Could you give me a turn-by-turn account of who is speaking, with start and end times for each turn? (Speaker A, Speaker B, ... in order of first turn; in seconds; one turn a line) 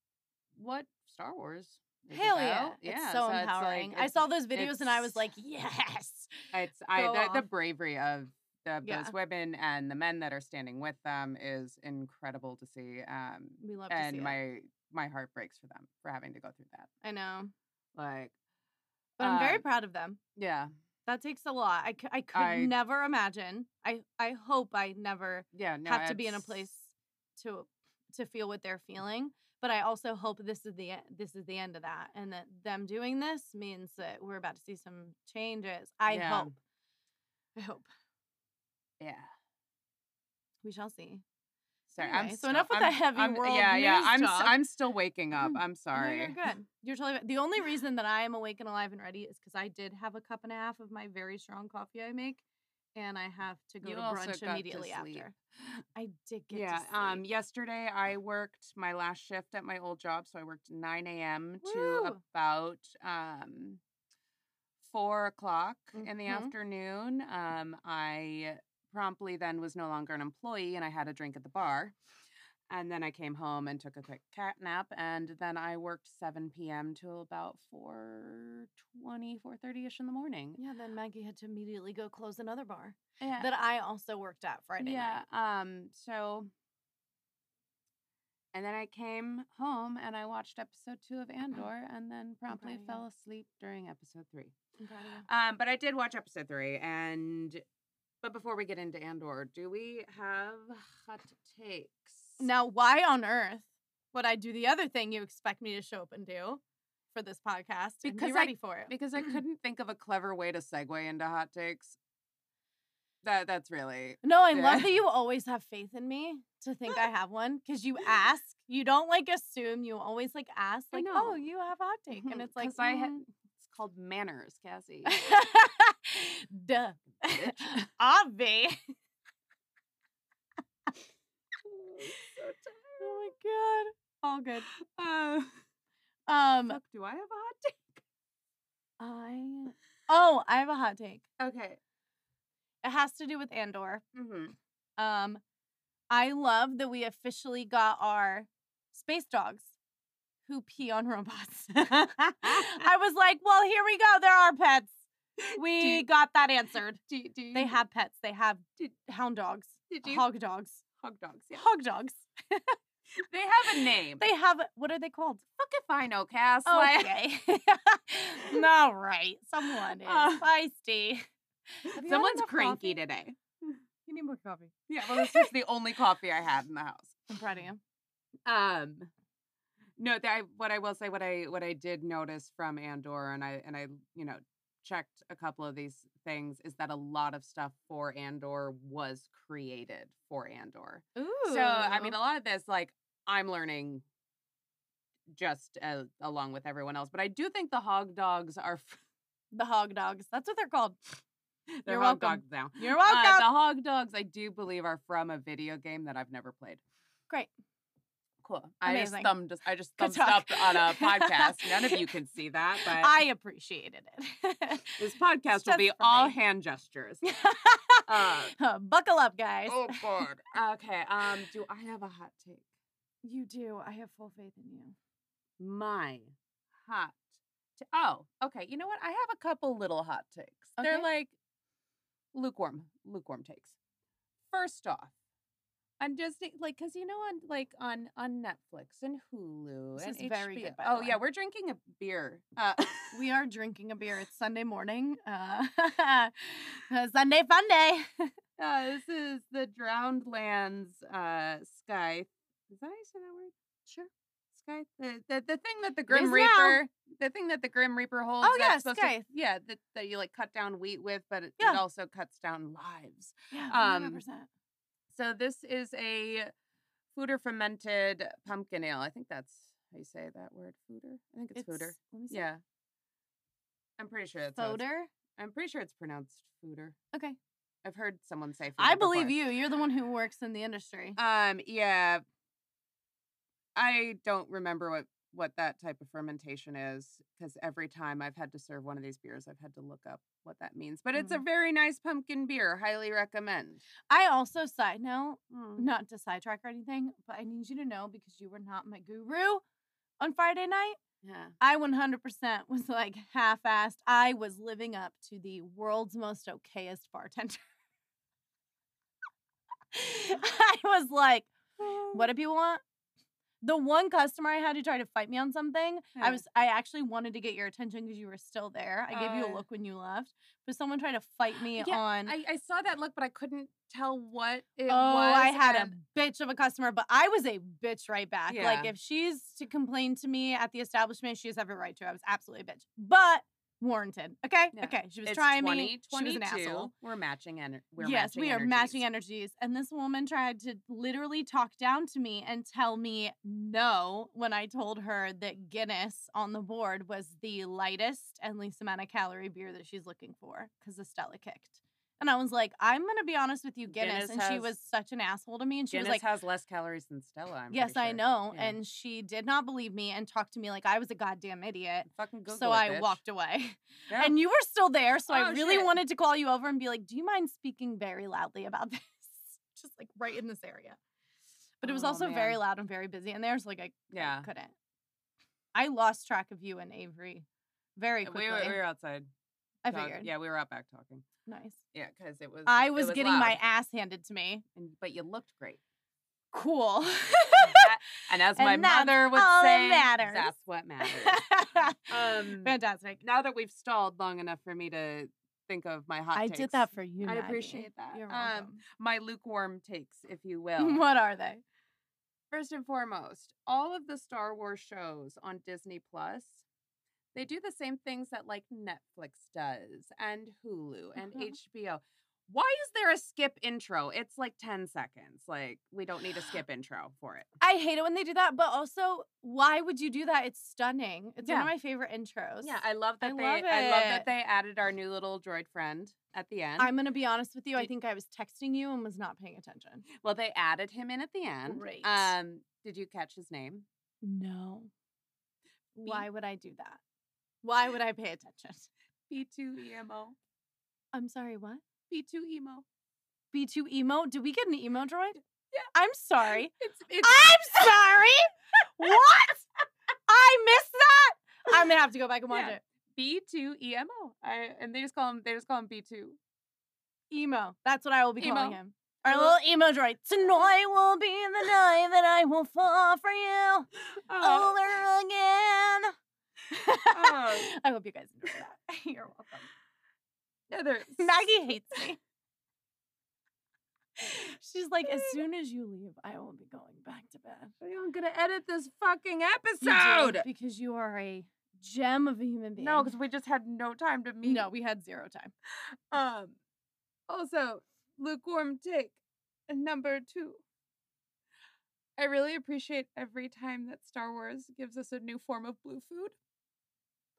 Speaker A: 0.5-5.2
Speaker B: 2.1-7.4
Speaker A: 6.5-16.9
Speaker B: 8.8-9.1
Speaker B: 13.6-14.4
Speaker B: 17.0-17.5
Speaker A: 17.9-18.3
Speaker A: 19.2-19.6
Speaker B: 19.2-20.2
Speaker A: 20.4-20.7
Speaker B: 21.1-36.6
Speaker A: 22.3-22.7
Speaker A: 25.5-26.7
Speaker A: 36.1-36.5
Speaker B: 37.5-37.9
Speaker A: 39.0-39.3
Speaker B: 40.6-41.2
Speaker A: 41.9-46.3
Speaker B: 42.0-44.6
Speaker B: 45.4-52.4
Speaker B: 52.9-55.3
Speaker A: 53.8-55.8
Speaker B: 55.9-57.2
Speaker A: 56.5-63.8
Speaker B: 61.6-62.2
Speaker A: 64.8-71.9
Speaker B: 66.0-66.5
Speaker A: 72.7-80.6
Speaker B: 80.6-85.2
Speaker A: 83.2-83.5
Speaker A: 84.8-86.5
Speaker A: 88.5-94.5
Speaker B: 92.5-93.0
Speaker B: 94.8-95.2
Speaker A: 95.2-97.6
Speaker A: 98.2-102.4
Speaker B: 102.4-106.6
Speaker B: 107.1-109.3
Speaker A: 108.0-112.0
Speaker A: 113.2-114.9
Speaker B: 114.2-123.2
Speaker A: 120.9-121.4
Speaker A: 122.1-125.1
Speaker B: 125.0-128.9
Speaker A: 127.3-127.9
Speaker A: 131.6-133.2
Speaker B: 133.0-134.7
Speaker A: 134.8-135.6
Speaker B: 136.3-136.8
Speaker A: 136.7-138.0
Speaker B: 139.0-141.2
Speaker A: 141.4-141.8
Speaker B: 142.8-144.0
Speaker A: 144.1-144.5
Speaker B: 145.0-145.4
Speaker B: 146.1-149.7
Speaker B: 150.4-154.9
Speaker A: 152.4-152.8
Speaker A: 155.4-156.1
Speaker B: 155.5-157.0
Speaker A: 157.1-157.8
Speaker B: 157.5-160.8
Speaker A: 159.9-160.2
Speaker A: 161.0-161.6
Speaker B: 161.6-162.8
Speaker A: 163.2-164.3
Speaker B: 164.2-165.4
Speaker A: 165.6-167.1
Speaker B: 166.7-173.0
Speaker A: 169.8-170.4
Speaker A: 171.8-173.8
Speaker B: 174.1-175.5
Speaker A: 174.9-177.3
Speaker B: 177.3-177.8
Speaker A: 178.4-179.1
Speaker A: 180.0-194.0
Speaker B: 191.2-192.2
Speaker A: 195.3-199.0
Speaker B: 199.5-201.0
Speaker A: 201.8-206.8
Speaker B: 201.8-203.5
Speaker A: 208.4-213.2
Speaker B: 208.8-209.3
Speaker B: 210.0-212.1
Speaker B: 212.8-215.0
Speaker A: 215.0-217.2
Speaker B: 215.5-216.4
Speaker B: 217.2-220.2
Speaker A: 218.1-218.5
Speaker A: 219.7-222.6
Speaker B: 223.2-224.9
Speaker A: 225.6-227.2
Speaker A: 227.8-231.3
Speaker B: 230.8-231.1
Speaker A: 232.3-233.8
Speaker A: 234.5-235.1
Speaker A: 236.0-243.2
Speaker B: 240.0-241.2
Speaker B: 243.1-248.3
Speaker A: 248.6-253.5
Speaker A: 254.5-264.2
Speaker B: 256.1-256.8
Speaker B: 258.4-259.2
Speaker B: 263.5-264.5
Speaker A: 265.1-266.5
Speaker A: 267.1-272.6
Speaker B: 271.5-272.4
Speaker A: 274.0-274.8
Speaker B: 274.6-275.1
Speaker A: 275.4-277.0
Speaker A: 277.8-279.4
Speaker B: 278.8-281.2
Speaker A: 281.1-282.2
Speaker A: 283.7-293.8
Speaker B: 291.1-291.4
Speaker B: 294.1-299.6
Speaker A: 295.5-295.9
Speaker B: 300.2-301.0
Speaker A: 301.2-301.5
Speaker B: 301.6-307.6
Speaker B: 309.9-311.5
Speaker A: 311.8-312.3
Speaker B: 312.0-312.8
Speaker B: 313.6-322.3
Speaker A: 316.1-316.4
Speaker A: 319.1-319.6
Speaker A: 321.8-325.9
Speaker B: 324.9-336.9
Speaker A: 328.5-328.9
Speaker A: 334.7-339.0
Speaker B: 338.0-356.2
Speaker A: 353.9-354.7
Speaker A: 355.9-358.8
Speaker B: 357.7-371.0
Speaker A: 362.1-363.2
Speaker A: 364.1-364.3
Speaker A: 365.3-365.9
Speaker B: 371.8-374.7
Speaker A: 371.8-372.6
Speaker A: 374.1-374.5
Speaker B: 375.7-377.4
Speaker B: 378.0-378.8
Speaker A: 378.2-379.3
Speaker B: 379.8-380.3
Speaker A: 379.9-381.2
Speaker B: 381.4-381.8
Speaker A: 381.9-383.6
Speaker B: 382.6-384.6
Speaker A: 384.7-385.8
Speaker B: 386.5-387.9
Speaker A: 387.6-401.0
Speaker B: 388.5-393.2
Speaker B: 396.3-398.8
Speaker B: 400.8-401.6
Speaker A: 402.5-406.6
Speaker A: 407.3-417.5
Speaker B: 411.2-411.5
Speaker B: 417.6-424.3
Speaker A: 421.4-421.7
Speaker A: 422.6-426.9
Speaker B: 426.8-430.1
Speaker A: 430.1-433.9
Speaker B: 431.6-432.3
Speaker B: 434.2-434.9
Speaker B: 435.9-437.0
Speaker B: 437.6-438.9
Speaker A: 439.3-440.4
Speaker B: 441.1-441.8
Speaker A: 442.1-442.8
Speaker B: 443.5-445.4
Speaker B: 445.9-449.6
Speaker A: 446.7-448.1
Speaker B: 450.3-452.8
Speaker A: 452.5-456.4
Speaker B: 457.3-466.1
Speaker A: 458.4-459.6
Speaker A: 464.2-464.8
Speaker B: 466.7-469.7
Speaker A: 467.1-467.7
Speaker A: 470.7-472.0
Speaker B: 471.2-472.2
Speaker B: 474.2-477.7
Speaker A: 475.0-475.4
Speaker A: 477.8-480.4
Speaker B: 479.8-483.1
Speaker A: 482.8-484.7
Speaker B: 484.4-485.5
Speaker A: 485.9-486.6
Speaker A: 487.3-490.6
Speaker A: 492.2-496.4